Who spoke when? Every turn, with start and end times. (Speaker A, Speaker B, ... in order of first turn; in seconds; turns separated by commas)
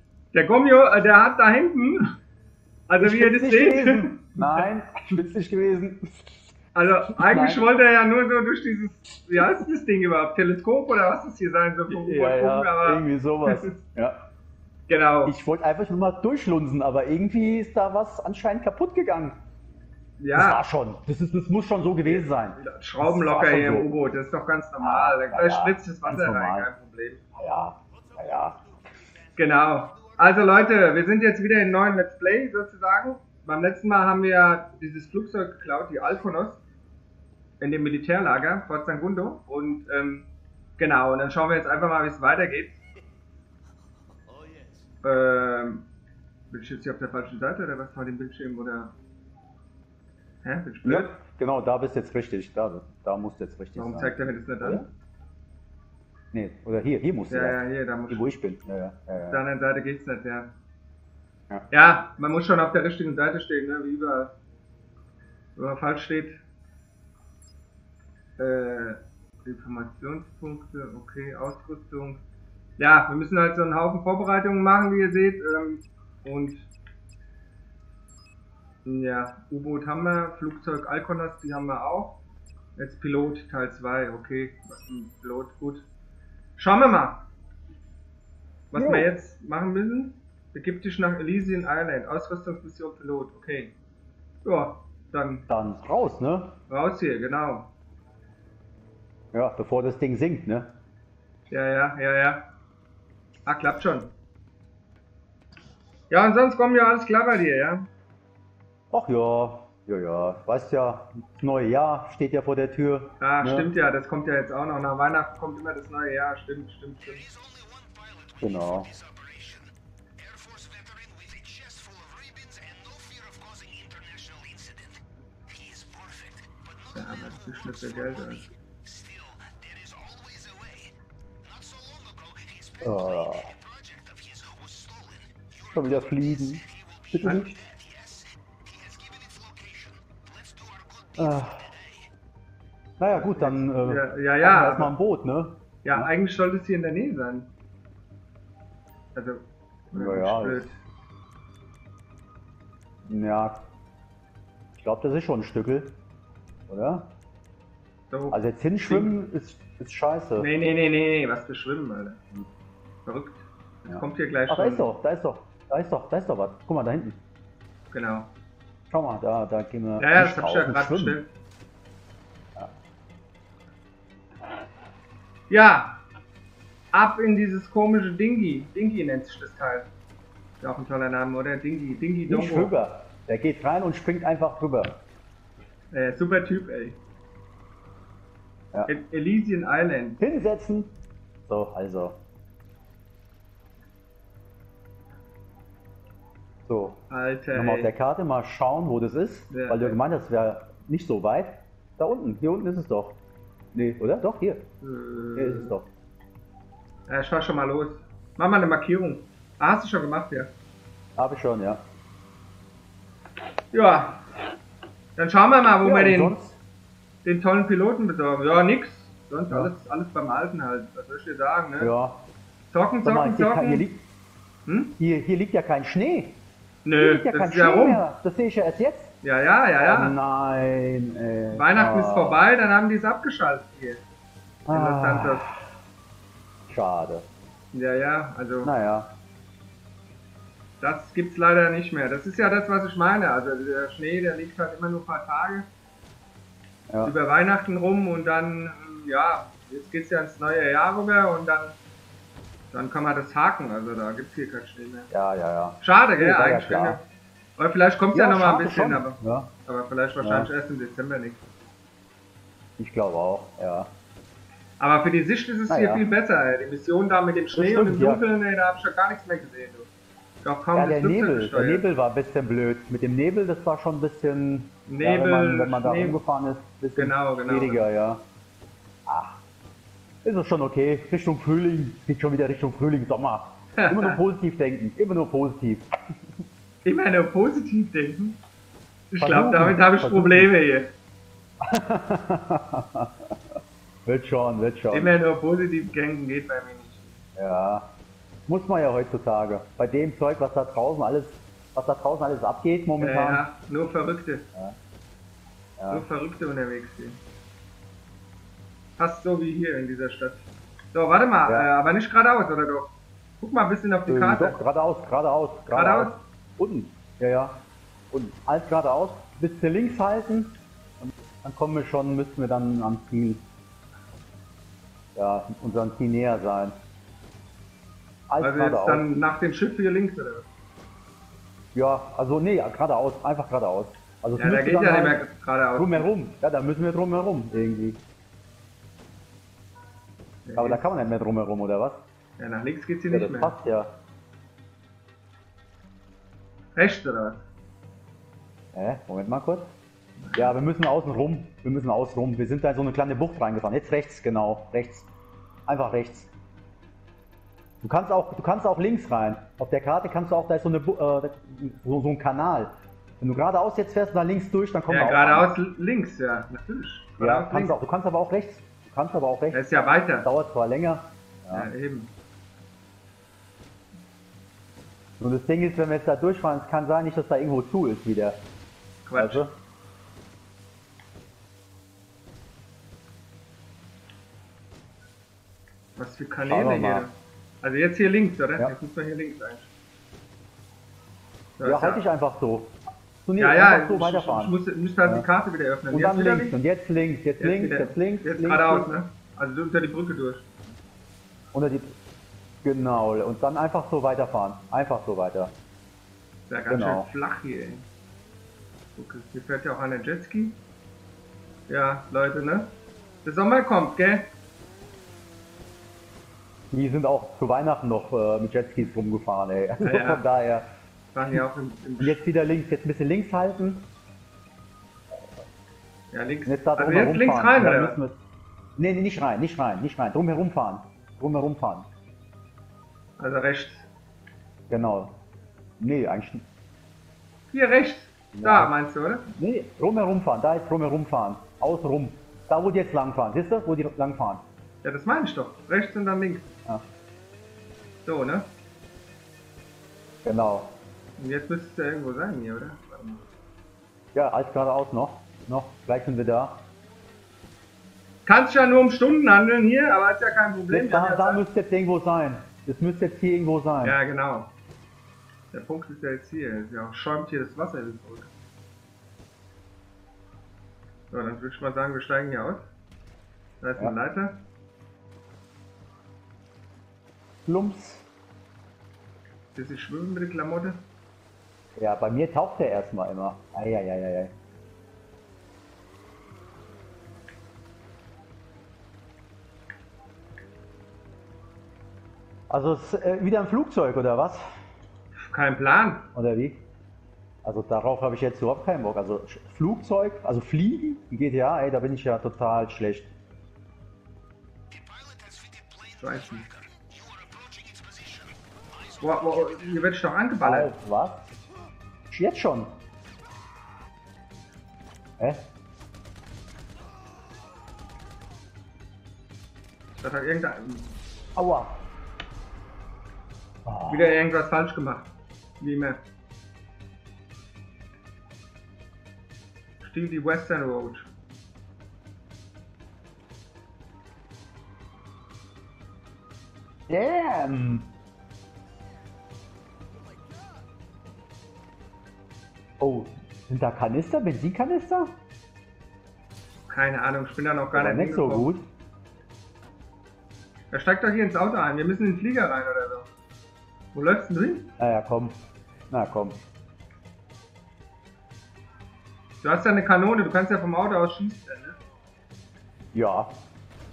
Speaker A: 0.3-2.0, Speaker A: 2.9-4.7, Speaker B: 3.0-6.4, Speaker A: 6.7-13.8, Speaker B: 7.1-7.7, Speaker B: 11.9-14.2, Speaker A: 14.9-15.3, Speaker B: 15.2-19.4, Speaker A: 20.2-20.6, Speaker B: 20.3-23.9, Speaker A: 22.0-27.2, Speaker B: 24.8-26.7, Speaker B: 27.4-28.6, Speaker A: 29.3-36.6, Speaker A: 37.6-42.8, Speaker A: 45.0-45.9, Speaker A: 46.5-48.9, Speaker A: 50.4-51.1, Speaker B: 50.8-54.9, Speaker A: 53.8-54.9, Speaker B: 56.3-59.4, Speaker A: 57.3-58.2, Speaker A: 59.2-60.5, Speaker A: 61.7-64.3, Speaker A: 65.5-66.4, Speaker A: 68.4-72.2, Speaker A: 72.8-76.7, Speaker A: 78.8-82.2, Speaker A: 82.8-85.8, Speaker A: 86.5-87.2, Speaker A: 88.7-93.7, Speaker B: 88.7-89.1, Speaker A: 94.4-95.4, Speaker B: 95.5-96.5, Speaker A: 96.7-97.7, Speaker B: 99.3-100.7, Speaker A: 101.5-102.5, Speaker A: 103.5-104.1, Speaker A: 106.1-107.8, Speaker B: 108.9-113.7, Speaker A: 113.2-117.3, Speaker B: 118.4-119.0, Speaker C: 120.3-124.8, Speaker C: 125.6-126.2, Speaker A: 126.9-128.5, Speaker C: 129.7-130.8, Speaker B: 132.8-133.5, Speaker B: 135.5-137.6, Speaker A: 137.2-137.5, Speaker C: 138.9-139.9, Speaker B: 141.2-141.7, Speaker B: 143.0-146.1, Speaker A: 143.0-145.0, Speaker A: 145.8-147.5, Speaker A: 149.1-150.8, Speaker B: 149.9-150.7, Speaker B: 153.1-153.6, Speaker B: 154.8-155.9, Speaker B: 156.7-157.1, Speaker A: 158.1-159.1, Speaker B: 158.3-160.5, Speaker A: 160.4-162.2, Speaker A: 163.0-164.9, Speaker B: 163.9-167.2, Speaker A: 167.9-168.3, Speaker B: 168.9-171.2, Speaker A: 170.0-171.3, Speaker A: 175.5-176.0, Speaker A: 176.9-179.9, Speaker A: 180.6-182.7, Speaker B: 182.3-185.0, Speaker A: 185.9-187.0, Speaker A: 188.9-190.2, Speaker B: 190.2-190.9, Speaker B: 191.5-192.2, Speaker B: 196.7-197.0, Speaker A: 197.1-197.9, Speaker B: 197.5-203.2, Speaker A: 199.5-200.0, Speaker B: 203.7-204.6, Speaker A: 204.8-205.8, Speaker B: 205.3-205.9, Speaker A: 207.1-210.5, Speaker B: 211.2-211.8, Speaker A: 213.7-214.2, Speaker A: 215.2-216.4, Speaker B: 215.8-216.6, Speaker A: 217.2-221.9, Speaker B: 221.8-222.2, Speaker A: 222.7-223.9, Speaker B: 223.0-224.1, Speaker A: 224.7-224.9, Speaker B: 225.0-226.4, Speaker A: 226.8-228.0, Speaker B: 227.0-229.1, Speaker A: 229.2-230.1, Speaker B: 229.8-232.4, Speaker A: 231.5-234.0, Speaker B: 234.7-235.7, Speaker A: 234.7-235.5, Speaker B: 236.7-237.2, Speaker A: 237.7-238.7, Speaker B: 238.6-239.1, Speaker A: 240.8-245.7, Speaker B: 246.9-247.1, Speaker A: 247.0-251.8, Speaker A: 252.7-255.1, Speaker B: 255.1-257.0, Speaker A: 255.8-257.0, Speaker A: 257.6-261.4, Speaker B: 258.1-259.5, Speaker B: 260.2-260.5, Speaker B: 262.8-263.9, Speaker A: 264.8-269.9, Speaker B: 265.7-266.0, Speaker B: 267.5-268.2, Speaker A: 270.4-271.9, Speaker B: 270.7-278.2, Speaker A: 274.9-276.2, Speaker A: 276.9-277.9, Speaker B: 279.1-279.4, Speaker B: 280.2-285.9, Speaker A: 283.8-284.2, Speaker A: 286.8-288.4, Speaker A: 289.1-290.9, Speaker B: 289.2-290.5, Speaker B: 291.6-293.3, Speaker B: 294.1-295.1, Speaker A: 294.9-297.2, Speaker B: 297.4-297.9, Speaker B: 298.5-303.4, Speaker A: 303.0-304.5, Speaker B: 305.8-306.1, Speaker A: 305.9-307.2, Speaker A: 309.0-314.6, Speaker B: 311.4-311.7, Speaker B: 314.1-323.4, Speaker A: 315.7-316.2, Speaker B: 325.1-326.8, Speaker B: 328.3-329.1, Speaker A: 328.4-330.5, Speaker B: 331.7-335.2, Speaker A: 334.4-336.1, Speaker B: 335.8-338.0, Speaker A: 340.4-340.9, Speaker B: 340.6-342.0, Speaker A: 342.4-343.6, Speaker B: 343.1-343.9, Speaker A: 346.7-347.4, Speaker B: 348.7-349.6, Speaker A: 350.2-350.6, Speaker B: 350.3-355.1, Speaker B: 355.6-356.3, Speaker B: 357.8-365.5, Speaker A: 364.9-367.8, Speaker B: 367.2-369.6, Speaker A: 369.5-370.3, Speaker B: 370.2-371.7, Speaker A: 371.5-372.1, Speaker B: 375.2-378.4, Speaker A: 379.1-379.5, Speaker B: 379.1-379.5, Speaker A: 385.9-389.7, Speaker B: 386.4-387.1, Speaker A: 391.6-392.0, Speaker B: 391.6-395.2, Speaker A: 393.4-396.6, Speaker B: 395.9-398.9, Speaker A: 397.4-400.5, Speaker B: 401.5-401.9, Speaker B: 402.6-405.5, Speaker A: 406.5-407.9, Speaker B: 406.7-407.1, Speaker A: 408.9-410.6, Speaker A: 411.7-414.3, Speaker B: 416.7-420.7, Speaker A: 419.8-420.2, Speaker A: 421.1-422.3, Speaker B: 422.0-423.9, Speaker A: 426.1-428.0, Speaker B: 426.4-428.2, Speaker B: 428.8-431.9, Speaker A: 433.2-433.9, Speaker B: 434.7-435.1, Speaker B: 435.8-436.4, Speaker A: 437.5-439.3, Speaker B: 438.3-438.7, Speaker B: 439.3-444.4, Speaker A: 444.8-446.5, Speaker A: 448.0-448.5, Speaker B: 450.2-450.7, Speaker A: 451.2-453.2, Speaker B: 454.1-456.6, Speaker A: 458.2-461.4, Speaker B: 460.7-464.0, Speaker A: 463.8-464.5, Speaker A: 465.5-468.3, Speaker A: 471.1-472.6, Speaker A: 473.6-474.4, Speaker B: 477.4-478.1, Speaker A: 479.5-480.8, Speaker B: 481.8-484.3, Speaker B: 492.5-494.4, Speaker A: 495.1-496.1, Speaker B: 496.1-496.6, Speaker B: 497.4-503.1, Speaker A: 506.0-506.5, Speaker A: 509.0-510.7, Speaker B: 510.4-511.3, Speaker B: 512.1-512.7, Speaker A: 520.0-521.0, Speaker B: 521.4-521.8, Speaker B: 523.6-524.1, Speaker A: 523.9-526.0, Speaker A: 529.8-531.1, Speaker B: 536.9-537.9, Speaker B: 542.8-545.1, Speaker A: 546.7-548.5, Speaker B: 547.7-548.6, Speaker A: 550.7-553.1, Speaker A: 553.9-554.7, Speaker B: 554.8-555.4, Speaker B: 555.9-556.4, Speaker A: 559.4-561.8, Speaker B: 562.9-563.3